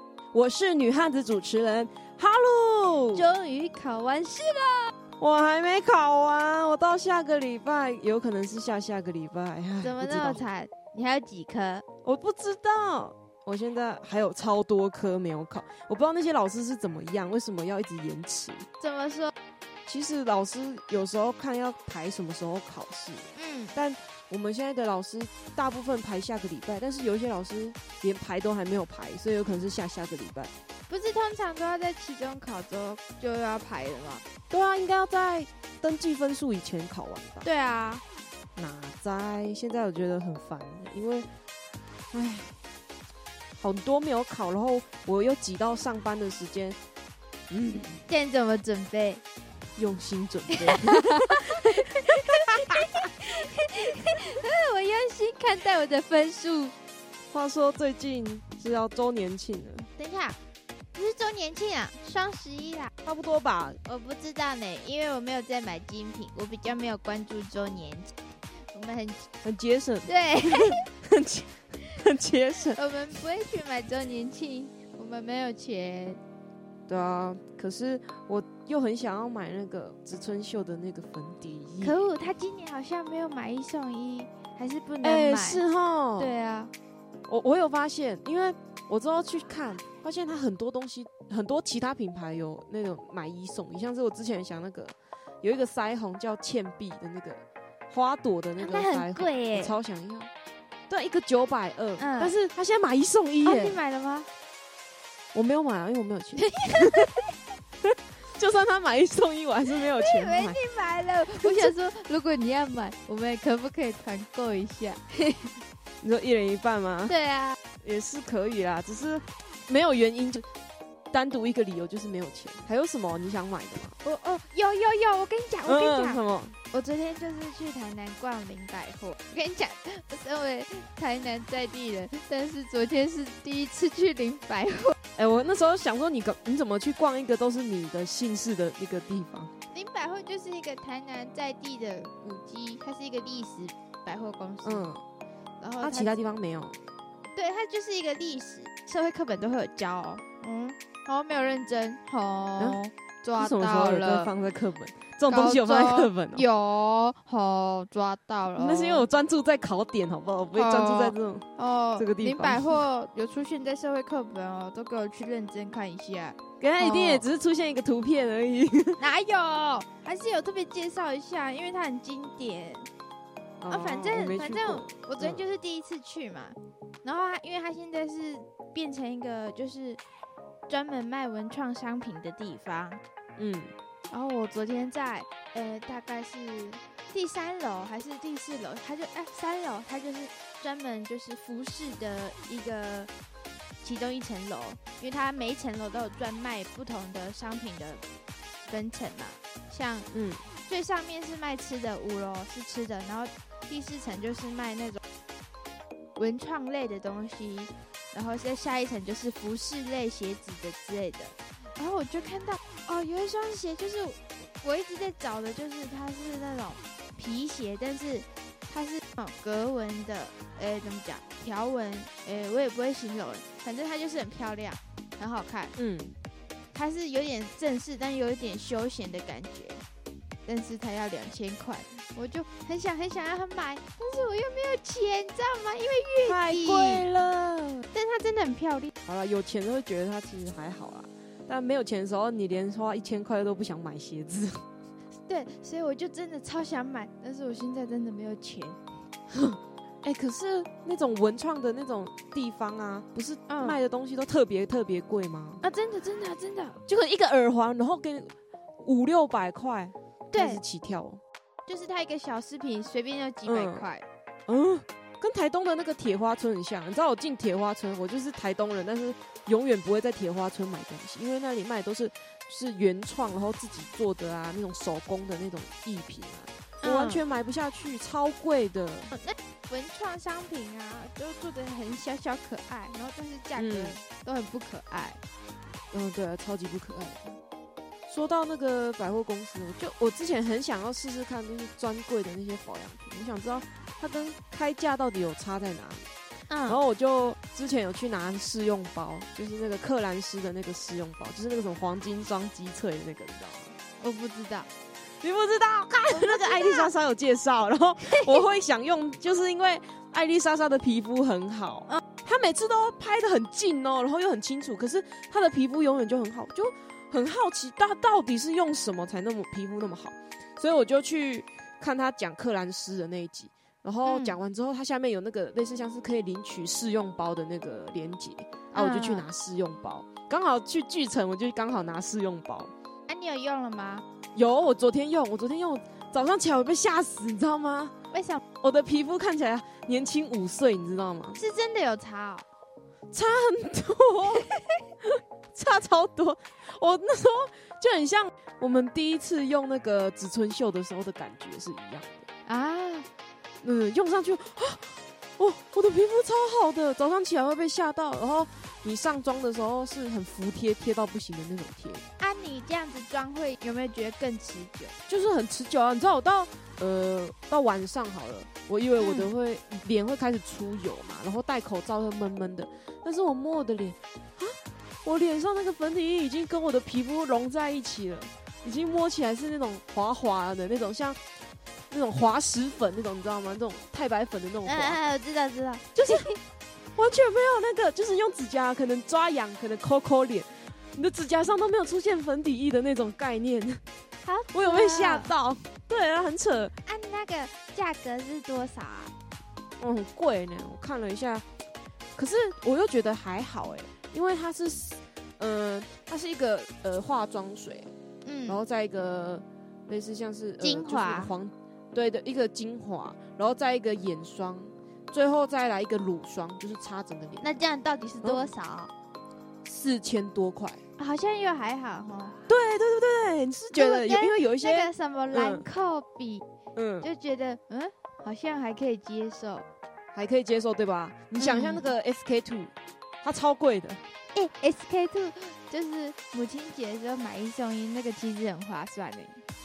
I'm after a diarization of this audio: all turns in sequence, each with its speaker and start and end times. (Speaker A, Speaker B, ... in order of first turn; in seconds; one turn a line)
Speaker A: 0.3-3.2
Speaker B: 3.1-4.9
Speaker A: 5.2-10.4
Speaker B: 9.8-11.8
Speaker A: 12.0-18.7
Speaker B: 18.8-19.3
Speaker A: 19.9-30.5
Speaker B: 23.3-23.7
Speaker B: 30.9-34.2
Speaker A: 34.5-37.5
Speaker B: 37.4-38.0
Speaker A: 38.5-41.3
Speaker A: 42.1-42.5
Speaker A: 43.6-46.8
Speaker A: 47.5-48.0
Speaker B: 48.1-49.2
Speaker A: 49.8-53.1
Speaker B: 50.6-56.7
Speaker A: 57.3-59.9
Speaker B: 60.0-60.4
Speaker B: 60.9-62.9
Speaker A: 63.0-63.8
Speaker B: 63.9-69.3
Speaker A: 69.4-72.8
Speaker B: 70.1-70.8
Speaker B: 72.7-76.2
Speaker A: 76.9-82.0
Speaker B: 81.8-85.6
Speaker A: 85.0-86.3
Speaker B: 86.2-86.7
Speaker A: 87.3-100.3
Speaker B: 98.6-99.7
Speaker A: 100.9-103.8
Speaker B: 102.0-102.3
Speaker B: 103.4-104.3
Speaker A: 105.3-107.1
Speaker B: 106.4-107.3
Speaker A: 107.8-110.6
Speaker B: 109.9-115.5
Speaker A: 111.4-111.7
Speaker A: 116.0-117.1
Speaker B: 117.1-117.6
Speaker A: 117.8-120.5
Speaker A: 121.1-124.0
Speaker B: 124.0-134.9
Speaker A: 125.7-126.5
Speaker A: 135.2-139.5
Speaker B: 139.7-144.9
Speaker A: 144.6-145.0
Speaker B: 145.6-146.2
Speaker A: 145.8-146.8
Speaker B: 147.3-154.3
Speaker A: 153.4-156.4
Speaker B: 155.3-159.1
Speaker A: 158.6-162.8
Speaker B: 160.5-167.2
Speaker A: 166.6-169.0
Speaker B: 169.0-172.9
Speaker A: 173.6-175.4
Speaker B: 173.7-180.0
Speaker B: 180.7-183.0
Speaker A: 183.4-183.7
Speaker B: 184.1-193.1
Speaker B: 193.8-198.0
Speaker B: 198.7-200.1
Speaker A: 200.1-200.5
Speaker B: 200.7-205.0
Speaker B: 206.2-225.7
Speaker A: 225.8-226.1
Speaker B: 226.7-229.8
Speaker B: 230.4-237.1
Speaker A: 236.2-237.8
Speaker B: 237.9-238.9
Speaker A: 239.1-244.6
Speaker B: 245.3-248.8
Speaker A: 249.3-255.6
Speaker B: 253.5-253.8
Speaker B: 255.6-256.8
Speaker A: 256.9-261.2
Speaker B: 260.3-260.6
Speaker B: 261.7-264.0
Speaker A: 263.4-263.9
Speaker A: 264.5-279.1
Speaker B: 276.8-277.2
Speaker B: 279.1-285.2
Speaker A: 283.6-284.0
Speaker A: 285.9-287.4
Speaker A: 288.1-296.1
Speaker B: 296.5-296.8
Speaker A: 296.7-303.7
Speaker B: 304.0-304.7
Speaker A: 305.1-332.7
Speaker B: 306.1-306.9
Speaker B: 324.1-324.4
Speaker B: 328.7-329.2
Speaker B: 333.1-334.0
Speaker A: 334.3-337.9
Speaker B: 338.1-338.4
Speaker A: 338.6-341.4
Speaker B: 341.4-342.4
Speaker A: 343.1-344.5
Speaker A: 345.0-352.2
Speaker B: 352.4-353.1
Speaker A: 353.6-362.0
Speaker B: 362.2-364.9
Speaker A: 365.1-381.2
Speaker B: 369.0-369.3
Speaker A: 381.9-385.0
Speaker B: 384.6-386.4
Speaker A: 385.9-386.3
Speaker A: 386.9-393.8
Speaker B: 394.2-395.3
Speaker A: 394.5-396.7
Speaker B: 396.9-399.1
Speaker A: 399.8-401.4
Speaker A: 402.1-407.9
Speaker B: 408.2-408.6
Speaker A: 408.5-417.5
Speaker B: 410.6-411.3
Speaker B: 417.4-418.9
Speaker A: 419.6-420.8
Speaker B: 421.0-422.4
Speaker A: 422.5-425.6
Speaker B: 423.7-426.4
Speaker A: 426.7-427.1
Speaker B: 427.0-429.7
Speaker A: 430.1-434.0
Speaker B: 431.4-431.8
Speaker B: 434.3-439.4